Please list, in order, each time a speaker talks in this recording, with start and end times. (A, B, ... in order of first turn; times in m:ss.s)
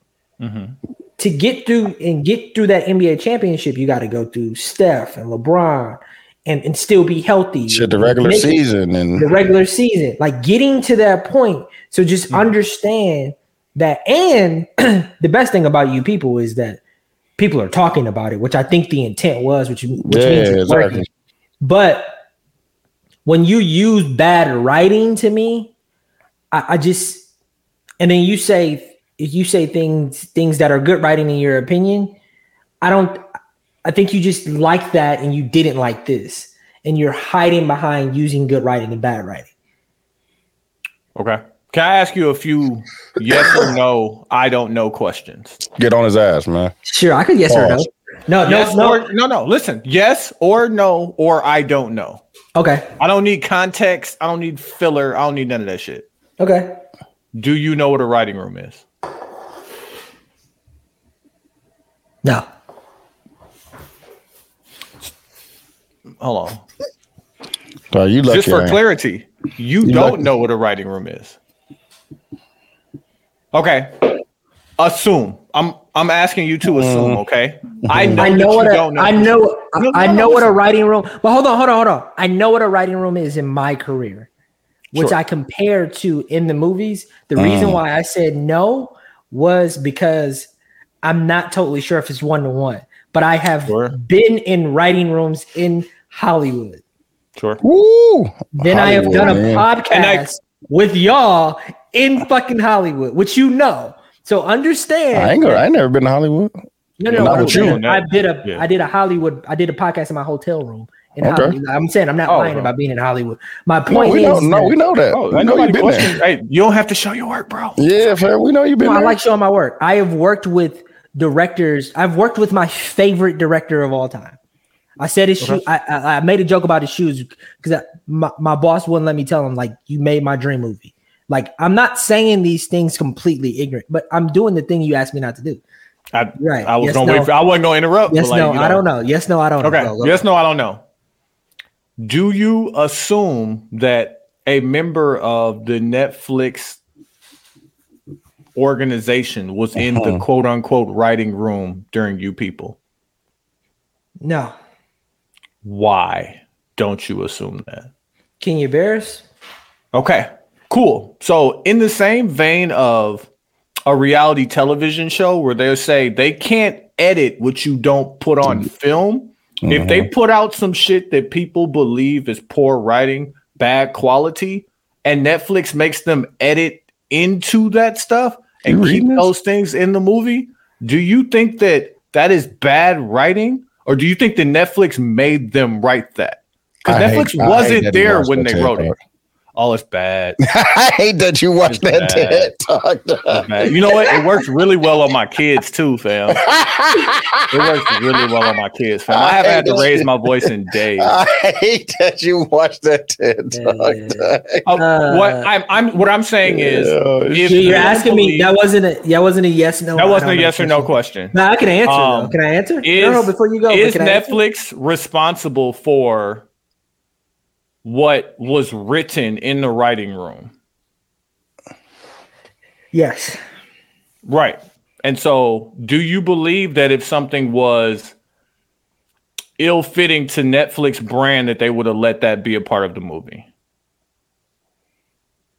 0:00.4-0:00.8 A
0:01.2-0:08.6 B
0:07.7-0:09.3 C
0:09.2-0:16.8 B
0:17.4-0:21.1 B
0:20.0-0:21.1 C
0:21.6-0:22.1 B
0:23.2-0:25.7 B
0:26.5-0:27.3 B
0:28.0-0:32.2 B
0:32.8-0:33.2 B
0:33.8-0:39.5 B
0:41.2-0:45.6 A
0:45.8-0:46.7 C
0:46.8-0:49.0 B
0:47.5-0:47.8 C
0:48.4-0:52.2 A
0:52.6-0:52.9 B
0:53.0-0:56.1 A
0:56.4-0:56.8 B
0:57.4-0:58.8 A
1:06.2-1:06.6 A
1:07.9-1:08.8 C
1:08.3-1:11.4 A
1:09.8-1:10.2 C
1:13.5-1:14.2 A
1:14.8-1:20.6 A
1:16.7-1:17.2 C
1:17.9-1:18.3 C
1:18.2-1:24.3 B
1:24.9-1:30.5 B
1:27.4-1:27.8 C
1:31.0-1:36.8 B
1:33.7-1:34.0 A
1:37.6-1:39.7 C
1:38.6-1:45.6 B
1:39.9-1:40.3 A
1:45.1-1:46.5 C
1:47.0-1:54.8 B
1:47.1-1:48.6 A
1:47.1-1:47.8 C
1:51.2-1:51.6 C
1:52.3-1:52.7 A
1:53.9-1:56.2 C
1:55.1-1:57.8 A
1:57.8-1:59.2 C
1:58.8-2:04.4 B
2:05.0-2:15.6 B
2:16.1-2:18.8 A
2:16.4-2:17.3 B
2:18.1-2:20.2 B
2:19.6-2:20.8 A
2:22.0-2:26.8 A
2:28.6-2:32.8 A
2:29.8-2:30.2 C
2:34.2-2:34.5 B
2:35.6-2:37.9 A
2:38.4-2:39.2 B
2:39.9-2:43.3 A
2:43.9-3:08.9 A
2:49.6-2:50.1 C
2:58.7-2:59.3 C
3:06.9-3:09.0 C
3:09.6-3:10.4 A
3:10.4-3:14.3 C
3:11.6-3:12.5 A
3:13.3-3:16.4 A
3:16.3-3:18.1 C
3:17.5-3:21.1 A
3:19.1-3:20.1 C
3:21.0-3:24.6 C
3:23.5-3:25.5 B
3:24.6-3:28.5 A
3:26.4-3:28.0 C
3:27.4-3:34.4 B
3:30.0-3:36.5 A
3:37.8-3:40.5 A
3:42.9-3:43.4 B
3:44.2-3:48.1 A
3:49.6-3:53.5 A